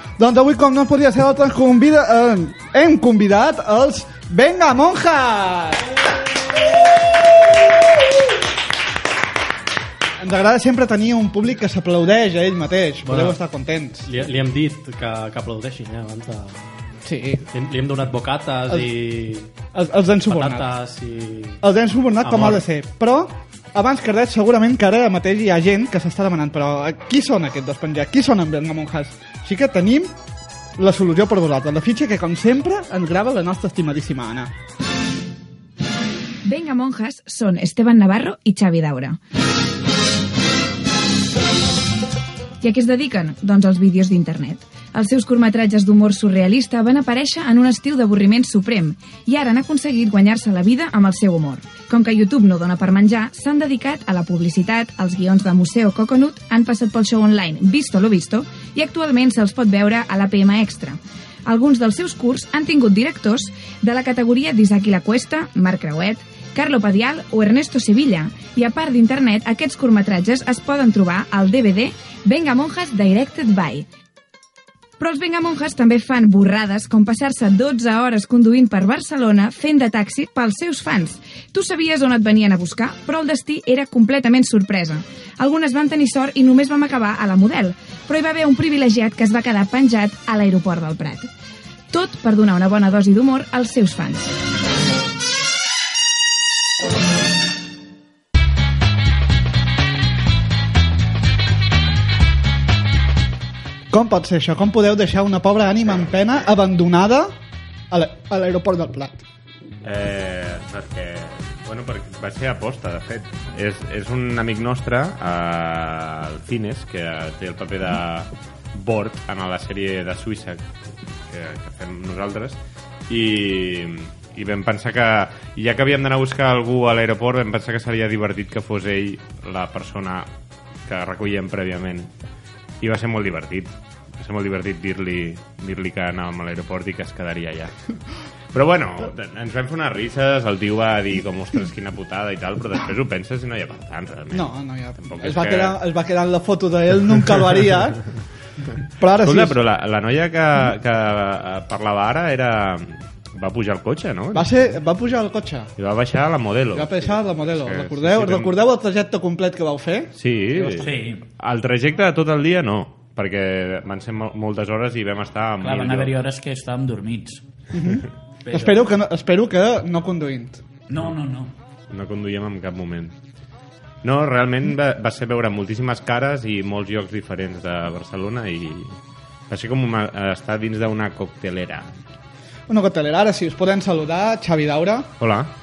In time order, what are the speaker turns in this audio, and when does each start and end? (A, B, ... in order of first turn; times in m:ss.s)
0:00.2-0:05.9 A
0:10.2-0:14.1 A
0:13.0-0:13.4 B
0:14.0-0:16.7 B
0:17.0-0:17.4 A
0:17.5-0:19.5 B
0:19.7-0:20.7 A
0:20.2-0:21.6 B
0:21.6-0:30.1 A
0:22.2-0:22.6 B
0:30.8-0:34.5 A
0:36.4-0:39.2 C
0:42.6-1:13.8 C
1:15.0-1:31.3 C
1:31.9-1:34.3 C
1:43.9-1:47.3 A
1:47.9-1:49.2 A
1:49.8-2:00.7 D
2:01.3-2:10.3 D
2:10.8-2:12.1 D
2:12.8-2:17.7 D
2:18.5-2:25.8 D
2:24.3-2:28.0 A
2:29.0-2:29.6 A
2:29.1-2:34.6 D
2:34.3-2:35.7 A
2:35.8-2:38.5 D
2:36.7-2:40.1 A
2:40.1-2:46.1 D
2:40.5-2:41.2 E
2:45.6-2:47.4 E
2:47.7-2:50.6 A
2:48.4-2:48.8 E
2:50.9-2:51.5 E
2:51.9-2:53.1 D
2:54.0-2:59.0 D
2:59.5-3:01.9 D
3:02.7-3:05.1 A
3:05.2-3:05.5 D